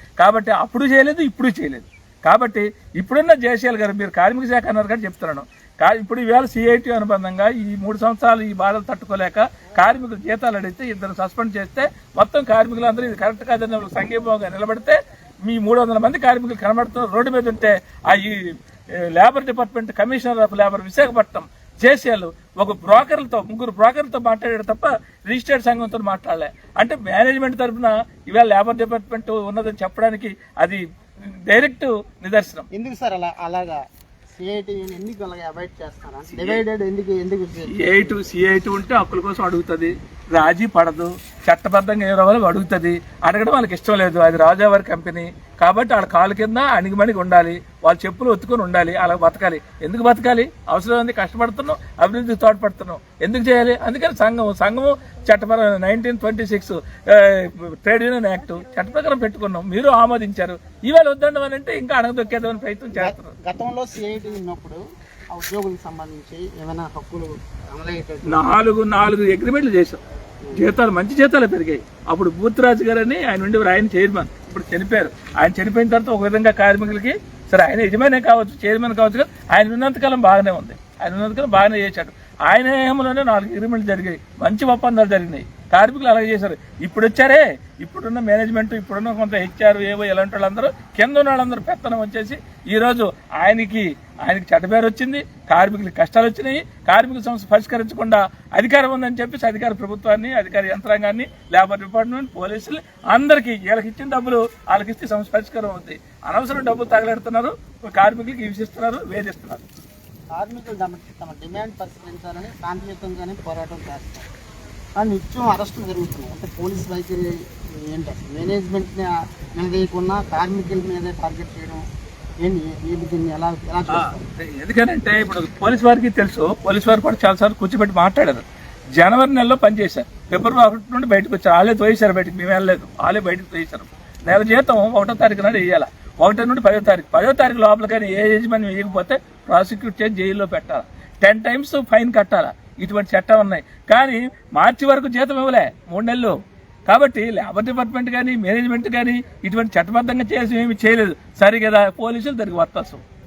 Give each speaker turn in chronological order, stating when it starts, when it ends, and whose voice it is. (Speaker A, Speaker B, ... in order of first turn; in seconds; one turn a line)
Speaker A: 0.2-30.8
Speaker A: 31.5-32.7
Speaker B: 32.7-33.8
Speaker B: 34.4-38.1
Speaker A: 37.8-63.4
Speaker B: 63.0-68.5
Speaker A: 68.3-70.0
Speaker A: 70.6-109.7
Speaker B: 110.3-114.3
Speaker B: 115.0-121.8
Speaker B: 122.4-124.2
Speaker A: 123.9-128.4
Speaker A: 128.9-146.4
Speaker A: 146.9-153.0